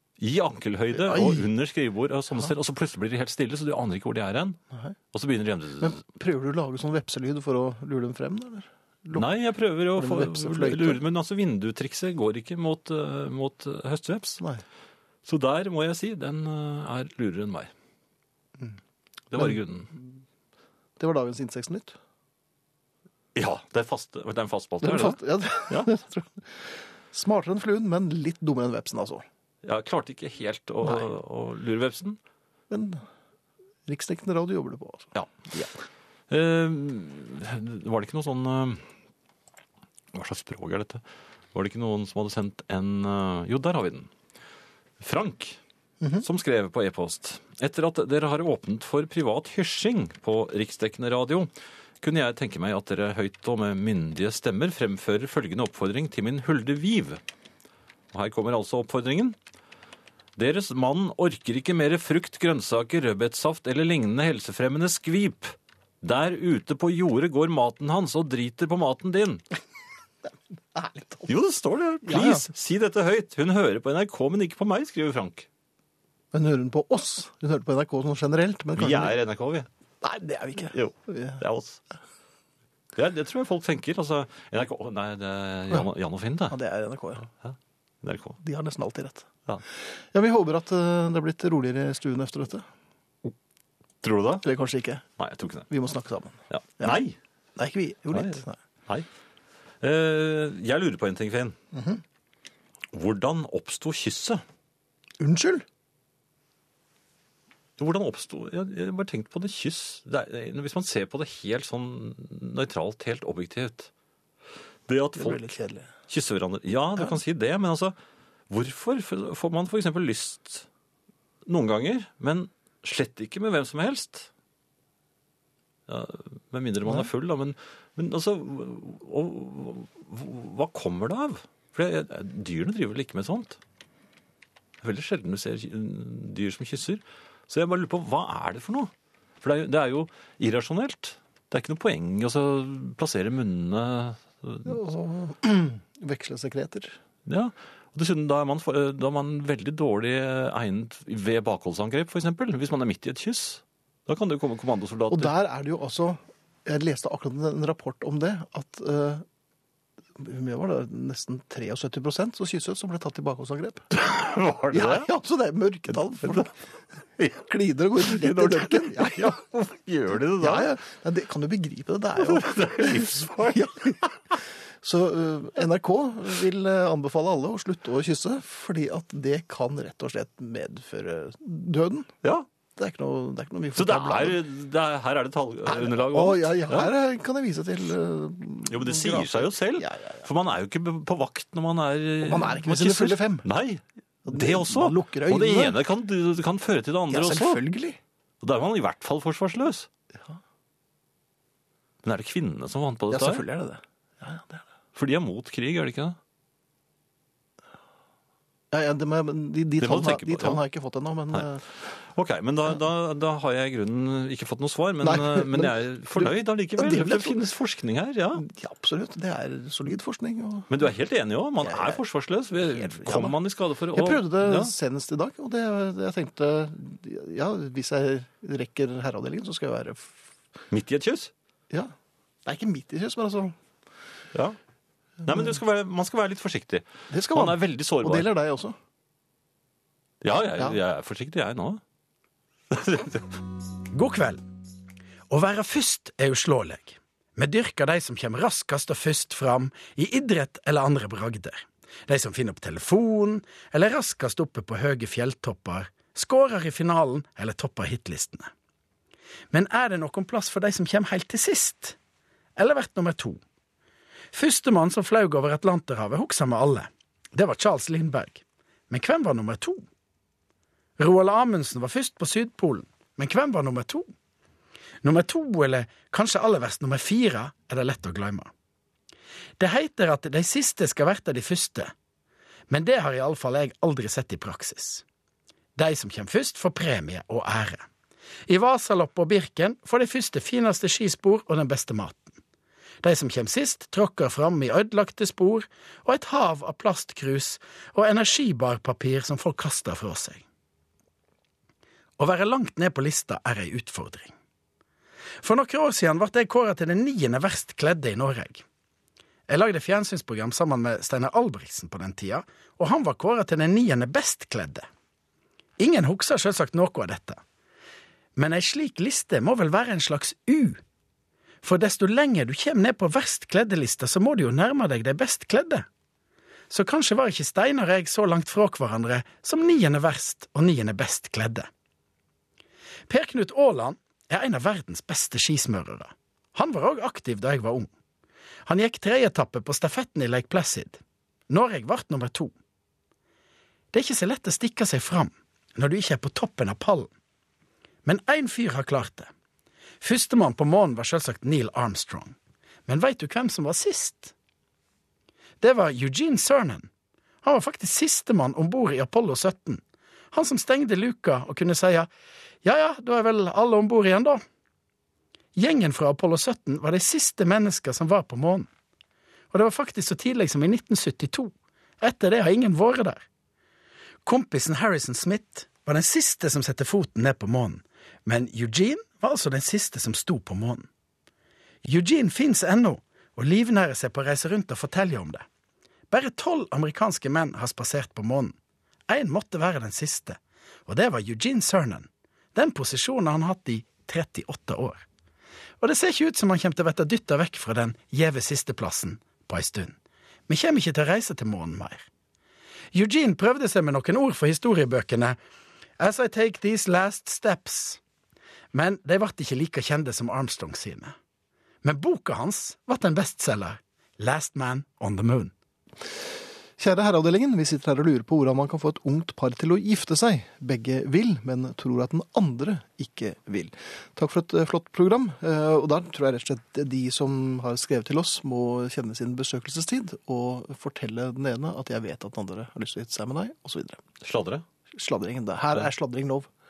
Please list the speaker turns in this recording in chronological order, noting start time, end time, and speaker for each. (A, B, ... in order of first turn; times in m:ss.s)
0:00.2-0:04.6 A
0:01.0-0:01.5 B
0:05.1-0:06.0 A
0:05.8-0:09.3 B
0:09.1-0:14.4 A
0:10.0-0:11.0 B
0:15.2-0:17.7 A
0:19.3-0:19.9 A
0:21.0-0:22.0 B
0:23.4-0:25.9 A
0:24.8-0:29.2 B
0:29.6-0:32.2 A
0:32.7-0:33.0 B
0:33.9-0:35.2 B
0:35.2-0:35.7 A
0:36.3-0:38.9 A
0:40.1-0:44.1 A
0:45.0-0:45.6 A
0:46.2-0:51.5 A
0:52.0-0:57.2 A
0:58.1-0:59.4 A
1:00.4-1:09.4 A
1:10.8-1:11.3 B
1:11.3-1:15.5 A
1:12.0-1:12.5 B
1:16.3-1:19.2 B
1:18.8-1:19.7 A
1:20.0-1:21.4 B
1:20.7-1:21.8 A
1:23.0-1:26.6 A
1:26.5-1:27.3 B
1:27.4-1:28.4 A
1:28.4-1:32.7 B
1:34.0-1:34.5 A
1:34.4-1:35.0 B
1:35.2-1:35.7 A
1:35.7-1:37.0 B
1:36.5-1:37.2 A
1:37.6-1:38.6 B
1:38.1-1:39.1 A
1:39.8-1:41.6 A
1:41.7-1:42.0 B
1:42.9-1:44.4 A
1:45.2-1:45.6 B
1:47.8-1:53.9 A
1:54.9-1:55.5 A
1:55.2-1:55.9 B
1:56.1-1:58.0 A
1:58.5-2:00.7 A
2:01.5-2:04.3 A
2:05.9-2:13.6 A
2:14.8-2:24.8 A
2:24.6-2:27.0 B
2:27.3-2:35.3 A
2:35.1-2:39.2 B
2:40.2-2:43.9 B
2:43.9-2:45.1 A
2:44.7-2:46.6 B
2:47.2-2:47.4 A
2:47.4-2:49.4 B
2:48.0-2:50.7 A
2:50.4-2:54.0 B
2:52.2-2:54.1 A
2:54.8-3:02.1 B
3:02.8-3:04.4 B
3:03.8-3:06.9 A
3:05.7-3:10.2 B
3:08.7-3:17.6 A
3:12.2-3:13.4 B
3:14.3-3:15.8 B
3:17.1-3:18.0 B
3:18.4-3:19.9 A
3:22.0-3:23.4 A
3:23.1-3:24.6 B
3:25.0-3:26.2 A
3:28.7-3:31.6 B
3:29.8-3:30.6 A
3:32.1-3:38.4 A
3:35.0-3:37.4 B
3:38.4-3:40.7 B
3:40.7-3:44.7 A
3:41.6-3:42.0 B
3:42.8-3:43.4 B
3:43.9-3:50.2 B
3:50.7-3:51.3 A
3:52.4-3:53.6 B
3:55.2-3:58.3 A
3:57.1-3:58.8 B
4:00.2-4:01.8 A
4:02.7-4:03.4 A
4:03.9-4:04.4 C
4:05.3-4:18.5 C
4:19.5-4:22.0 C
4:22.6-4:23.4 C
4:24.3-4:29.8 C
4:31.0-4:34.1 C
4:35.0-4:38.5 C
4:39.6-4:41.9 C
4:42.7-4:45.0 C
4:45.8-4:47.9 C
4:48.5-4:52.3 C
4:53.0-5:00.4 C
5:02.2-5:04.3 C
5:05.4-5:08.6 C
5:09.5-5:14.9 C
5:15.8-5:17.4 C
5:18.4-5:20.8 C
5:21.6-5:25.9 C
5:26.7-5:31.7 C
5:33.1-5:37.9 C
5:38.6-5:42.5 C
5:43.9-5:47.1 C
5:48.0-5:49.3 C
5:50.0-5:52.4 C
5:52.9-5:54.3 C
5:55.6-5:56.9 C
5:57.4-6:02.1 C
6:02.6-6:04.4 C
6:05.6-6:08.7 C
6:09.5-6:13.2 C
6:14.2-6:20.9 C
6:21.8-6:25.4 C
6:26.1-6:28.6 C
6:29.1-6:35.0 C
6:35.8-6:40.0 C
6:40.5-6:42.1 C
6:42.9-6:45.4 C
6:46.0-6:48.0 C
6:48.7-6:51.1 C
6:51.8-6:55.5 C
6:56.8-7:14.0 B
7:14.2-7:14.6 A
7:14.9-7:16.5 B